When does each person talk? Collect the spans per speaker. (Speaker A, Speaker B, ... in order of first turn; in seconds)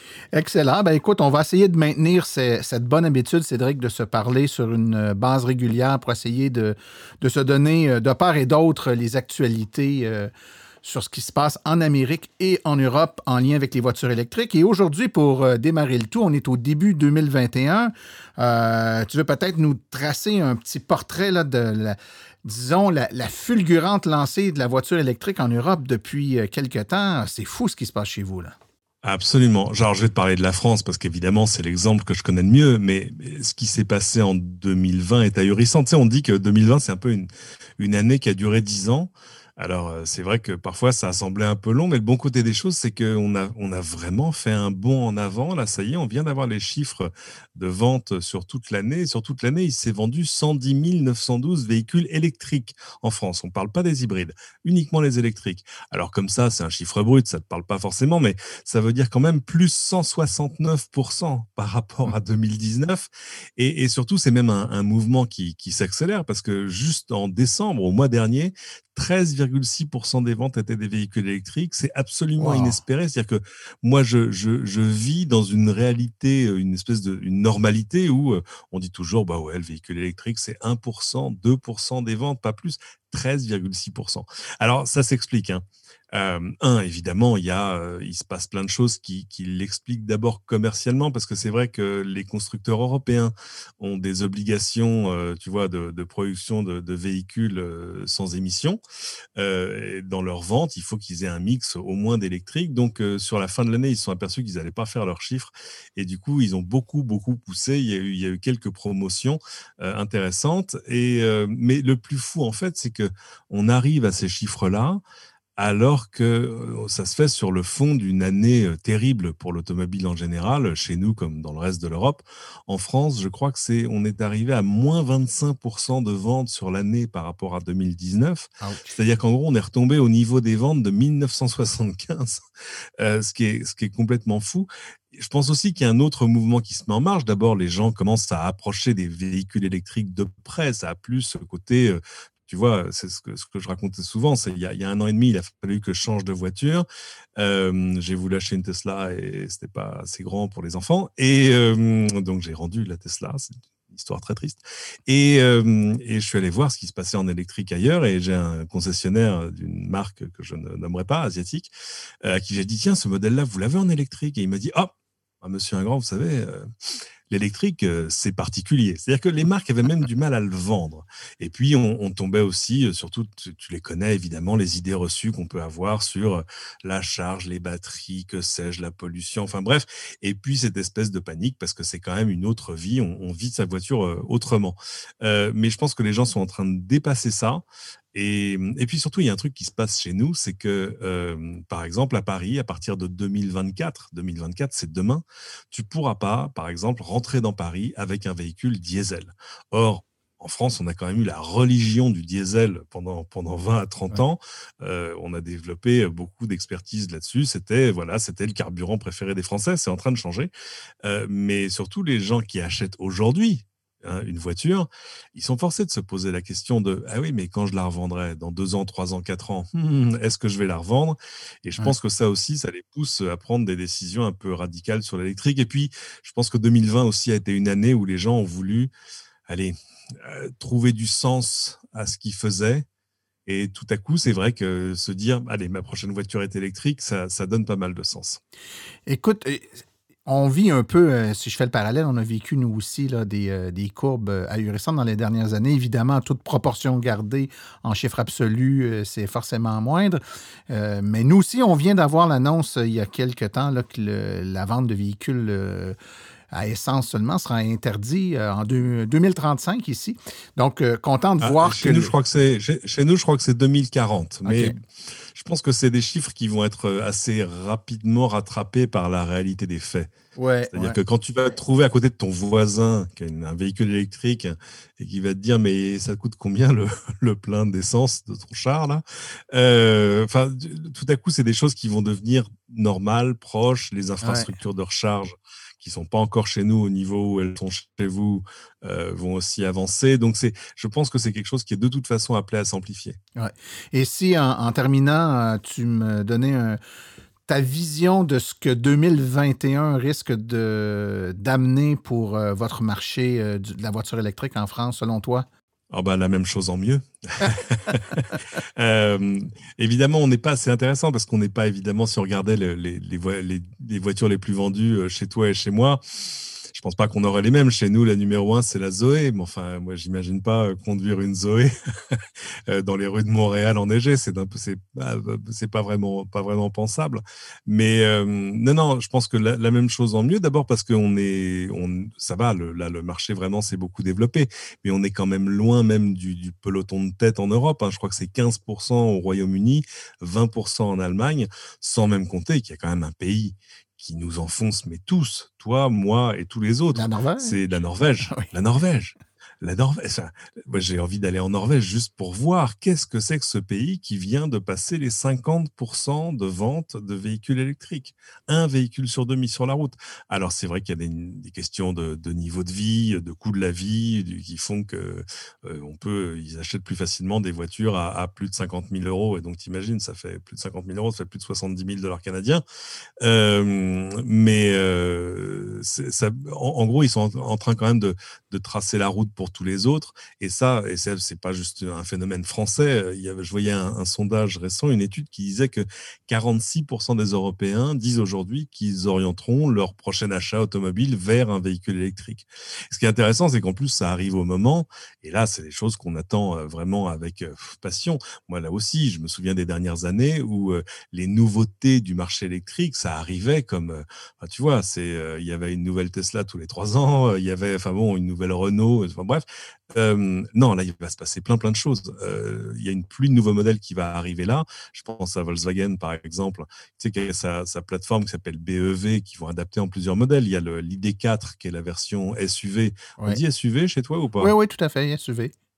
Speaker A: 0.3-10.3, 10.8-28.5, 72.4-72.8, 128.6-128.9, 239.1-256.0, 256.5-262.1, 264.4-264.8, 270.4-271.0, 284.2-284.5, 293.4-296.8, 297.5-305.5, 346.9-347.7, 348.3-348.5, 424.4-425.5
Speaker B: 29.0-98.8, 99.4-115.0, 115.6-132.4, 133.0-146.9, 147.4-161.7, 162.2-166.7, 167.3-210.5, 211.1-228.9, 229.5-232.9, 233.5-238.4, 261.4-264.8, 265.3-270.1, 270.7-293.2, 305.9-316.0, 316.6-372.6, 373.2-424.5